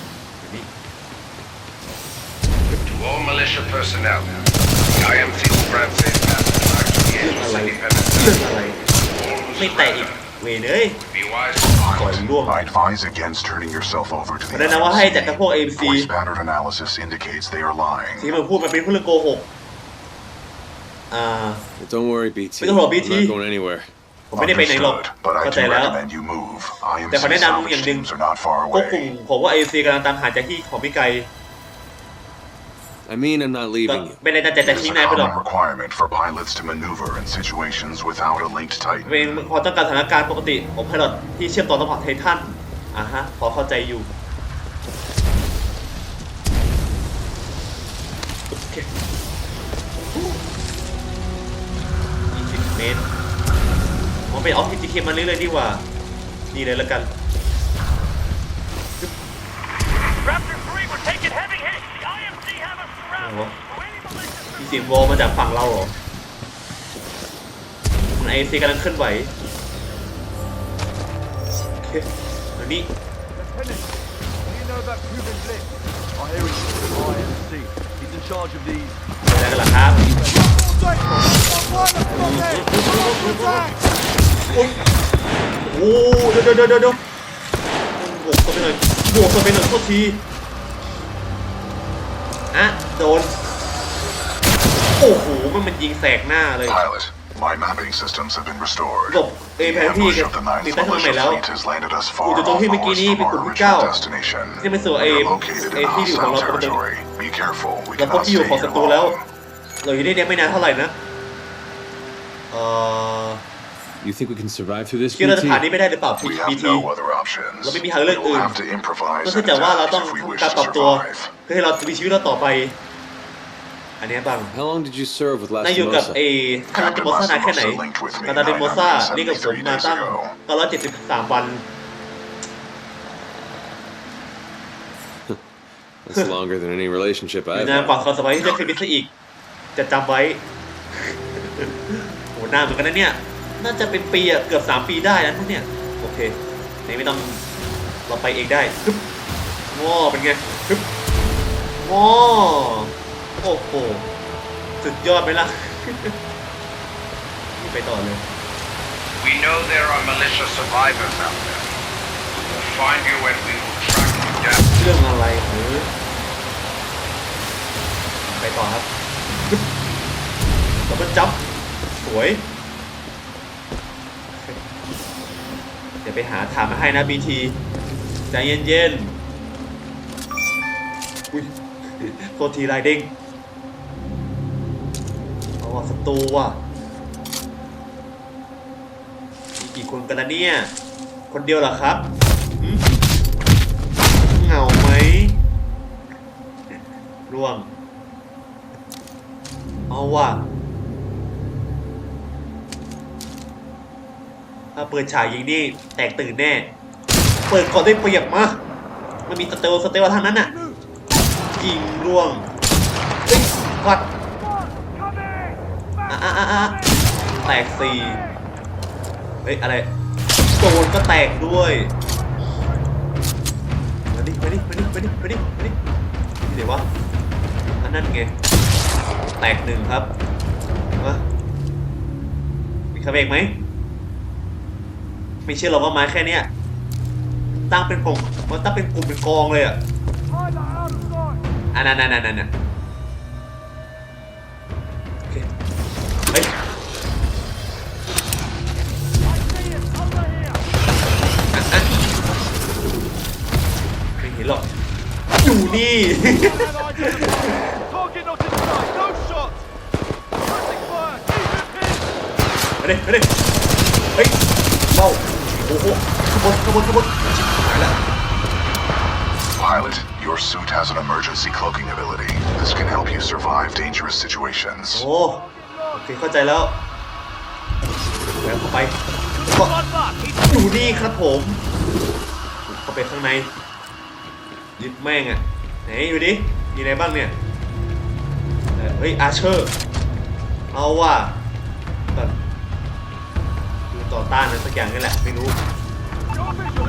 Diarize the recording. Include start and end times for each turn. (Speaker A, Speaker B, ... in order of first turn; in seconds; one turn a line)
Speaker A: 0.4-0.7
Speaker B: 2.8-10.3
Speaker A: 7.2-8.8
Speaker A: 9.6-11.0
Speaker B: 11.0-11.8
Speaker C: 11.6-18.4
Speaker A: 11.9-12.7
Speaker A: 14.5-16.1
Speaker A: 18.2-19.5
Speaker A: 21.1-21.6
Speaker D: 21.8-23.9
Speaker A: 22.6-23.4
Speaker A: 24.3-26.0
Speaker C: 24.4-29.1
Speaker A: 27.1-28.1
Speaker A: 28.7-31.3
Speaker D: 33.1-34.2
Speaker A: 33.9-35.4
Speaker C: 34.6-39.5
Speaker A: 39.1-44.1
Speaker A: 48.5-48.9
Speaker A: 50.0-50.4
Speaker A: 52.3-53.1
Speaker A: 54.3-55.9
Speaker A: 56.5-57.1
Speaker E: 60.3-63.2
Speaker A: 63.2-63.6
Speaker A: 64.6-66.0
Speaker A: 68.1-69.3
Speaker A: 71.8-73.0
Speaker F: 74.5-75.7
Speaker F: 76.2-79.0
Speaker A: 79.3-80.1
Speaker F: 80.0-80.4
Speaker A: 81.8-83.7
Speaker A: 84.5-84.9
Speaker A: 85.6-87.0
Speaker A: 88.0-90.2
Speaker A: 92.5-93.4
Speaker A: 95.0-96.8
Speaker C: 96.7-109.3
Speaker A: 99.1-101.4
Speaker A: 102.2-103.9
Speaker A: 104.6-106.8
Speaker A: 108.0-109.2
Speaker A: 109.8-111.0
Speaker A: 112.5-113.4
Speaker D: 114.0-115.7
Speaker A: 115.2-116.9
Speaker C: 116.2-121.3
Speaker A: 117.6-118.6
Speaker A: 119.2-122.8
Speaker A: 124.0-124.6
Speaker D: 124.5-126.2
Speaker A: 125.6-131.7
Speaker C: 126.7-130.4
Speaker D: 136.0-138.0
Speaker A: 137.5-139.1
Speaker C: 137.9-138.8
Speaker A: 139.8-147.4
Speaker A: 148.1-149.0
Speaker A: 149.7-150.9
Speaker A: 151.8-154.1
Speaker A: 154.8-156.1
Speaker A: 157.6-158.3
Speaker B: 159.2-161.7
Speaker B: 162.3-164.7
Speaker A: 164.8-165.9
Speaker A: 168.2-169.7
Speaker A: 170.9-171.4
Speaker A: 172.0-172.5
Speaker A: 174.3-174.6
Speaker A: 176.0-177.6
Speaker A: 178.3-179.2
Speaker A: 181.3-183.1
Speaker A: 185.6-186.6
Speaker A: 189.6-190.7
Speaker A: 191.3-192.9
Speaker A: 194.3-195.4
Speaker A: 196.7-197.7
Speaker A: 199.9-200.5
Speaker A: 204.8-206.7
Speaker A: 207.5-208.6
Speaker A: 209.3-210.5
Speaker A: 211.6-212.5
Speaker A: 213.3-214.1
Speaker A: 216.1-216.8
Speaker A: 217.4-218.2
Speaker A: 219.4-219.9
Speaker A: 220.6-221.9
Speaker A: 224.1-225.8
Speaker A: 226.5-226.9
Speaker A: 227.8-228.4
Speaker A: 229.4-230.1
Speaker A: 231.0-231.2
Speaker A: 232.9-233.6
Speaker A: 235.5-236.5
Speaker A: 237.7-239.8
Speaker A: 241.7-242.5
Speaker A: 251.5-251.9
Speaker A: 254.2-254.7
Speaker A: 255.4-257.8
Speaker A: 262.8-263.4
Speaker A: 264.1-268.0
Speaker C: 269.6-275.1
Speaker A: 274.9-276.8
Speaker A: 278.4-279.8
Speaker E: 279.7-280.3
Speaker A: 280.5-281.6
Speaker A: 282.7-283.5
Speaker A: 284.8-287.4
Speaker A: 288.8-289.7
Speaker A: 290.7-291.4
Speaker A: 293.9-295.6